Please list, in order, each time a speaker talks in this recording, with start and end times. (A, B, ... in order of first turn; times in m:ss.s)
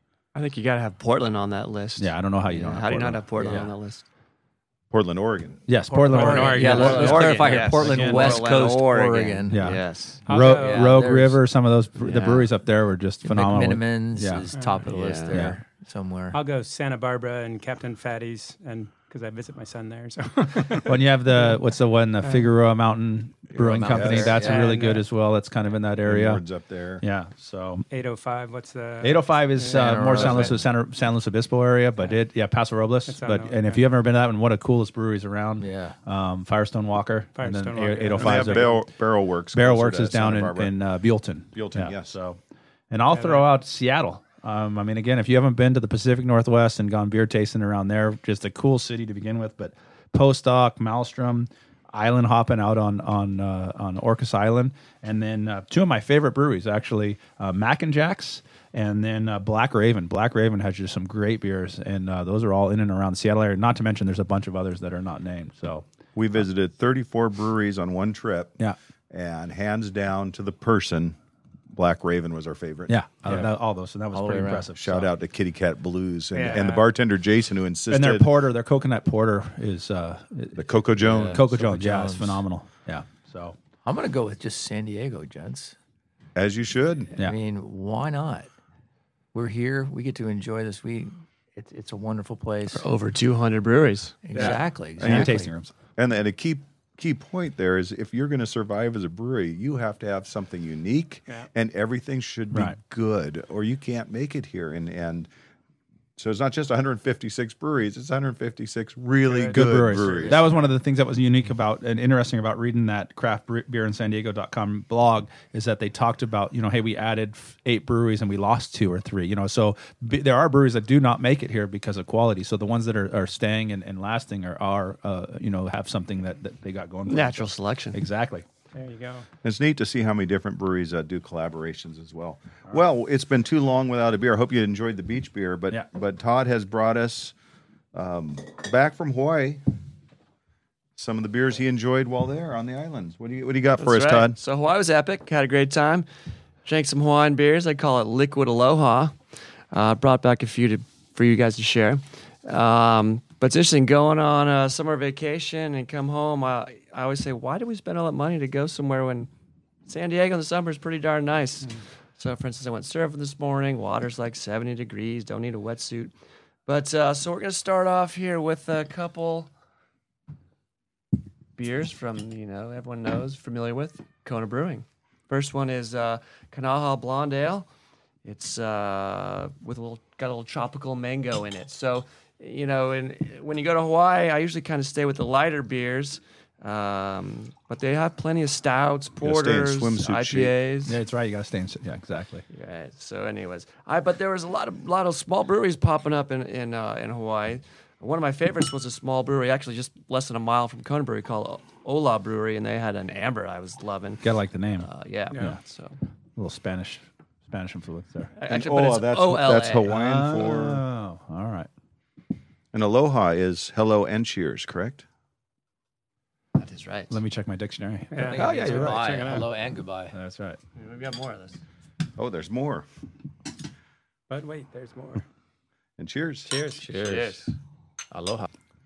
0:00.3-0:04.0 A
0:02.0-0:03.2 B
0:03.4-0:03.7 C
0:04.9-0:05.7 D
0:05.7-0:08.5 B
0:05.9-0:09.6 C
0:06.0-0:07.5 E
0:06.4-0:10.2 A
0:09.5-0:14.5 B
0:10.2-0:11.1 E
0:10.3-0:11.4 C
0:12.1-0:12.4 C
0:13.2-0:16.4 C
0:14.6-0:14.8 E
0:14.9-0:15.4 A
0:15.3-0:15.6 B
0:16.3-0:21.6 E
0:20.8-0:26.4 B
0:23.6-0:24.7 C
0:23.9-0:24.4 D
0:24.2-0:25.0 E
0:26.0-0:27.0 D
0:27.0-0:27.8 B
0:27.9-0:30.5 E
0:29.0-0:38.8 B
0:29.7-0:30.6 C
0:33.1-0:33.8 E
0:35.6-0:35.9 C
0:37.4-0:38.8 E
0:38.2-0:40.7 D
0:39.5-0:42.4 B
0:41.5-0:42.2 D
0:42.9-1:05.8 B
0:43.1-0:43.5 E
1:06.1-1:08.6 D
1:09.1-1:11.2 D
1:11.7-1:13.5 D
1:12.9-1:15.1 B
1:14.1-1:14.6 C
1:14.7-1:18.3 D
1:16.3-1:16.8 E
1:17.9-1:20.6 B
1:20.5-1:21.4 D
1:21.0-1:22.4 C
1:21.3-1:23.6 B
1:23.8-1:25.7 C
1:26.3-1:27.1 D
1:27.2-1:28.5 C
1:29.3-1:32.9 C
1:32.7-1:34.6 A
1:34.2-1:35.5 C
1:34.3-1:34.6 E
1:34.4-1:35.7 B
1:35.0-1:45.3 D
1:42.5-1:42.8 B
1:46.2-1:50.4 D
1:49.2-1:50.3 E
1:49.5-2:08.4 B
2:07.1-2:08.0 A
2:08.7-2:09.2 E
2:09.4-2:17.3 D
2:17.9-2:19.6 D
2:21.0-2:24.4 D
2:23.8-2:26.0 A
2:26.6-2:29.1 A
2:29.7-2:39.3 A
2:39.8-2:46.1 A
2:46.6-2:49.5 A
2:51.6-2:57.7 A
2:58.2-3:11.0 A
3:09.2-3:10.5 D
3:10.9-3:12.4 B
3:12.5-3:26.0 A
3:24.2-3:25.6 B
3:25.3-3:25.6 E
3:26.4-3:28.3 B
3:28.4-3:29.9 A
3:28.4-3:30.8 D
3:29.9-3:31.7 B
3:32.7-3:35.0 D
3:36.6-3:37.2 A
3:37.1-3:39.4 B
3:38.1-3:39.5 E
3:38.2-3:40.1 C
3:40.1-3:40.6 B
3:40.7-3:41.6 A
3:42.2-3:42.8 D
3:44.3-3:45.2 E
3:46.0-3:46.5 D
3:46.7-3:47.4 C
3:46.9-3:47.5 A
3:48.1-3:48.5 C